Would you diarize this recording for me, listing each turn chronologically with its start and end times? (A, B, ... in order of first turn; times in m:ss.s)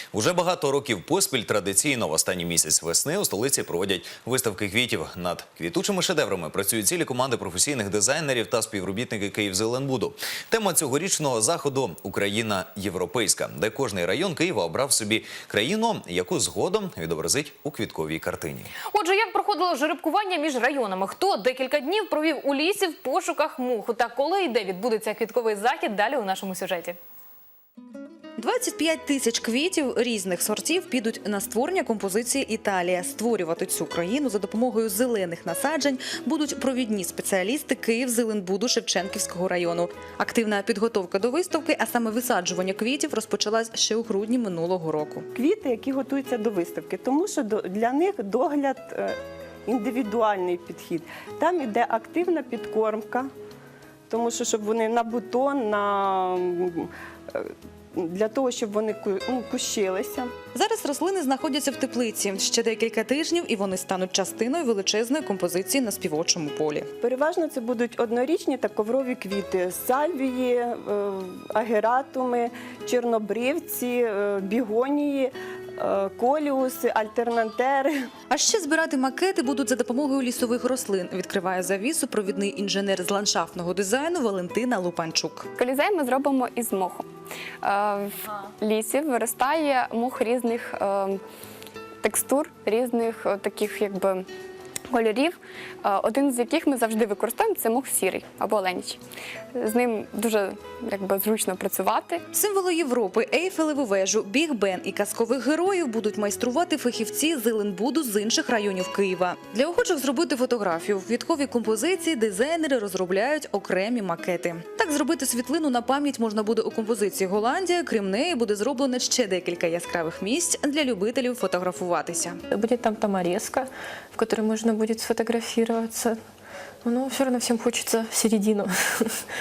0:00.1-0:18.7 A
0:18.9-0:27.0 B
0:28.4-0:45.2 C
0:45.3-0:53.3 D
0:54.1-1:00.3 D
1:00.5-1:06.9 C
1:07.0-1:18.0 D
1:18.3-1:25.5 C
1:25.6-1:27.1 E
1:27.6-1:31.2 E
1:32.0-1:34.3 E
1:34.9-1:39.0 E
1:39.5-1:42.2 E
1:42.3-2:02.4 C
2:02.5-2:06.2 F
2:06.8-2:09.2 F